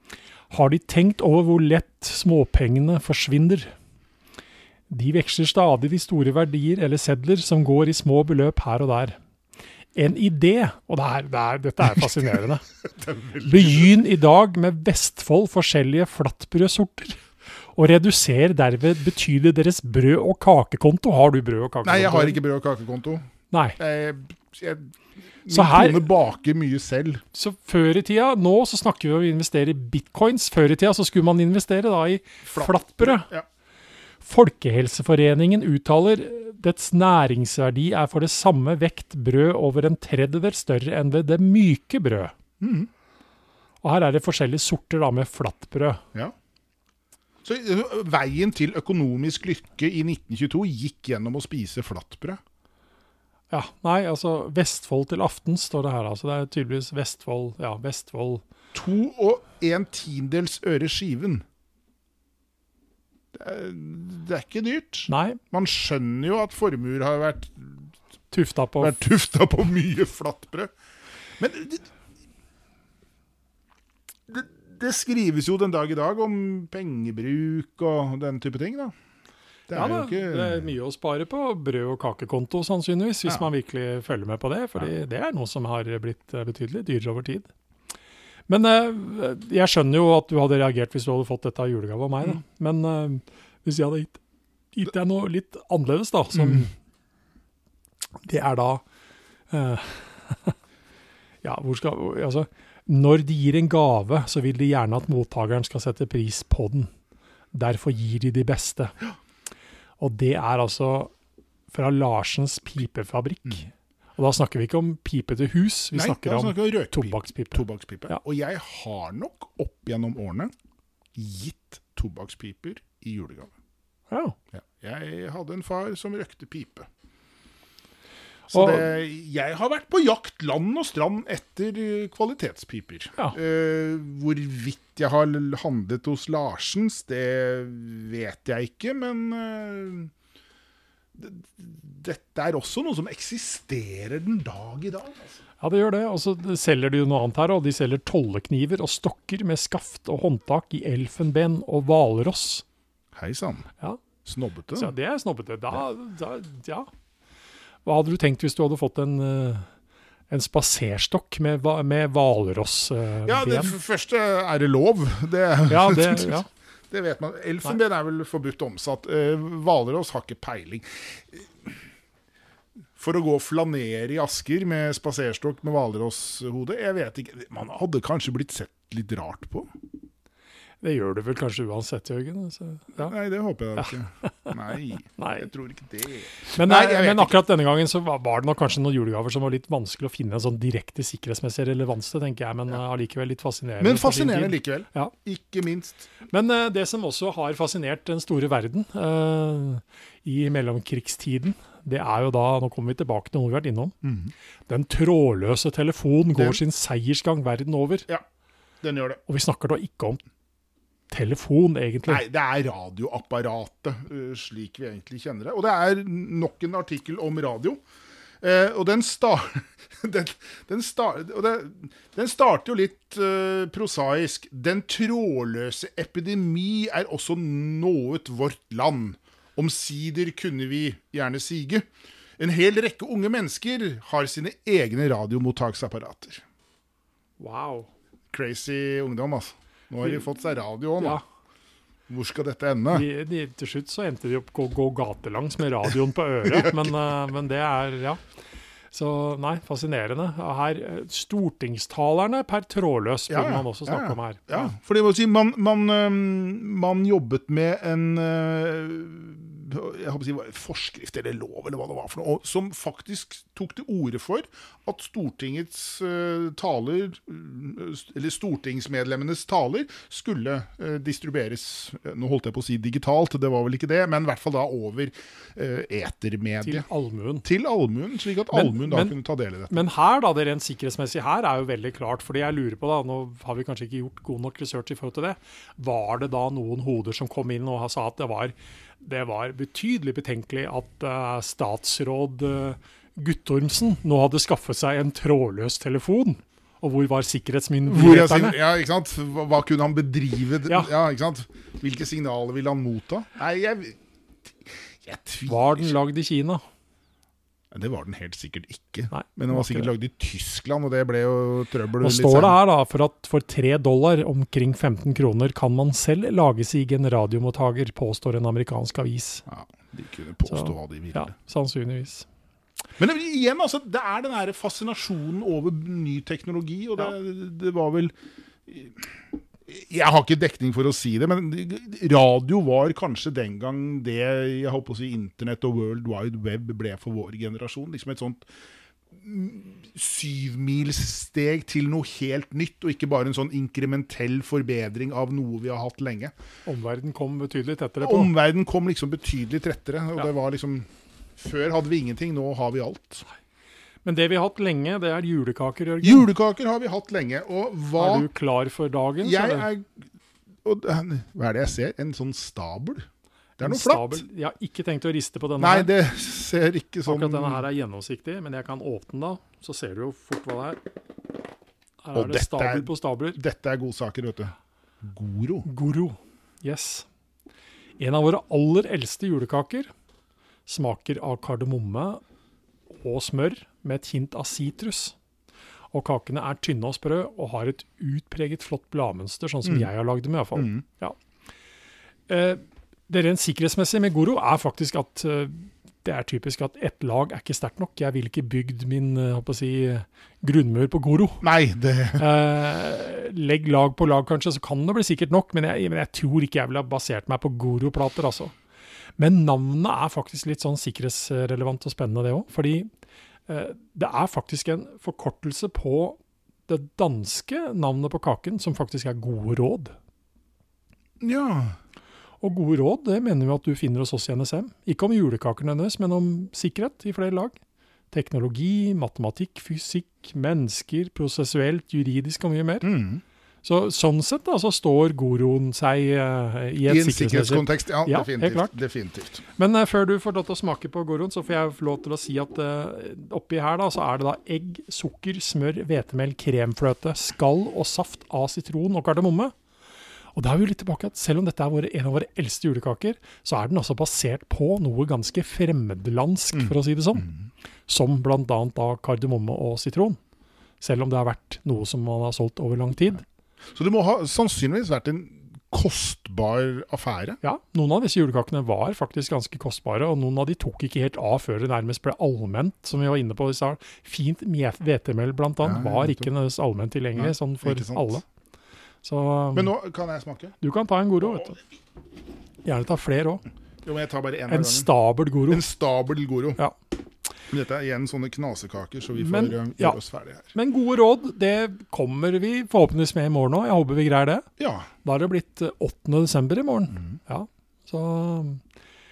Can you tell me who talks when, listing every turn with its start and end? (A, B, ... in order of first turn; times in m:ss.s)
0:00.5-0:03.7 A
0:04.9-0:09.2 A
0:10.0-0:12.6 A
0:12.8-0:14.0 B
0:13.4-0:17.2 A
0:17.8-0:22.4 A
0:21.8-0:23.2 B
0:23.5-0:23.8 A
0:23.8-0:27.2 B
0:25.5-0:26.1 A
0:27.3-0:33.3 A
0:32.4-0:33.4 B
0:34.2-0:42.3 A
0:42.6-0:42.9 B
0:43.8-0:46.0 A
0:47.4-0:52.4 B
0:53.5-0:58.4 A
0:58.7-1:01.4 B
1:03.3-1:07.9 B
1:05.1-1:05.4 A
1:08.3-1:09.0 A
1:08.8-1:10.7 B
1:11.4-1:11.9 B
1:14.3-1:18.9 B
1:19.7-1:20.7 B
1:19.7-1:27.5 A
1:28.5-1:34.2 A
1:34.7-1:36.7 A
1:36.3-1:36.7 B
1:38.2-1:38.8 A
1:39.5-1:40.6 A
1:41.4-1:46.9 A
1:47.5-1:49.0 A
1:50.0-1:51.1 A
1:51.7-1:58.2 A
1:55.9-2:00.5 B
2:01.2-2:03.5 B
2:04.1-2:04.4 A
2:04.5-2:06.9 B
2:08.5-2:08.8 A
2:08.5-2:20.1 B
2:21.2-2:25.4 B
2:25.6-2:32.6 A
2:33.2-2:33.7 B
2:34.2-2:34.9 B
2:34.8-2:36.9 A
2:37.8-2:39.7 A
2:40.3-2:43.8 A
2:43.3-2:51.8 B
2:45.7-2:46.5 A
2:53.0-2:59.7 B
3:00.8-3:03.1 A
3:03.0-3:07.4 B
3:03.8-3:04.6 A
3:05.2-3:05.5 A
3:06.5-3:15.1 A
3:13.8-3:16.1 B
3:16.3-3:24.0 A
3:24.0-3:24.3 B
3:24.7-3:28.1 A
3:26.3-3:26.6 B
3:28.8-3:29.2 B
3:29.3-3:30.2 A
3:31.1-3:32.2 A
3:32.1-3:37.8 B
3:38.4-3:56.4 B
3:57.4-3:57.9 A
3:58.3-4:01.2 B
4:02.1-4:03.1 B
4:02.9-4:08.2 A
4:06.4-4:07.0 B
4:08.9-4:14.7 A
4:13.3-4:36.9 B
4:36.6-4:37.5 A
4:37.4-4:39.9 B
4:38.5-4:39.2 A
4:39.7-4:58.6 A
4:57.9-5:04.0 B
5:04.7-5:06.0 B
5:05.5-5:06.6 A
5:07.7-5:12.6 B
5:09.1-5:09.9 A
5:12.0-5:19.4 A
5:19.5-5:21.3 B
5:20.5-5:22.3 A
5:23.0-5:28.1 B
5:28.7-5:38.4 B
5:39.1-5:46.3 B
5:46.7-5:48.3 A
5:48.0-5:53.2 B
5:54.0-5:56.3 A
5:56.0-5:58.3 B
5:58.0-5:59.7 A
5:59.2-5:59.9 B
6:00.6-6:03.1 B
6:03.6-6:04.2 B
6:03.6-6:05.9 A
6:05.6-6:07.6 B
6:07.0-6:10.8 A
6:12.0-6:13.4 A
6:12.1-6:15.7 B
6:15.6-6:17.1 A
6:18.0-6:19.9 A
6:20.7-6:22.2 A
6:23.0-6:25.2 A
6:25.9-6:31.2 A
6:29.6-6:29.9 B
6:30.6-6:30.8 B
6:32.3-6:41.4 A
6:41.4-6:42.3 B
6:42.2-6:48.5 A
6:49.2-6:52.9 A
6:53.5-7:00.0 A
7:01.2-7:01.8 B
7:02.4-7:07.6 A
7:08.1-7:12.9 A
7:12.8-7:13.2 B
7:13.6-7:18.7 A
7:16.8-7:19.4 B
7:19.6-7:29.5 A
7:30.4-7:37.3 A
7:36.5-7:37.4 B
7:37.9-7:40.2 A
7:40.8-7:43.2 A
7:43.7-7:47.4 B
7:47.4-7:58.2 A
7:55.6-7:56.3 B
7:57.2-7:58.2 B
7:59.0-7:59.7 A
7:59.5-8:00.6 B
8:00.6-8:01.6 A
8:01.2-8:01.5 B
8:02.6-8:03.4 A
8:03.8-8:04.9 B
8:04.5-8:05.6 A
8:05.5-8:06.6 B
8:07.5-8:10.5 B
8:09.2-8:10.0 A
8:10.5-8:14.5 A
8:14.6-8:14.9 B
8:15.0-8:18.6 A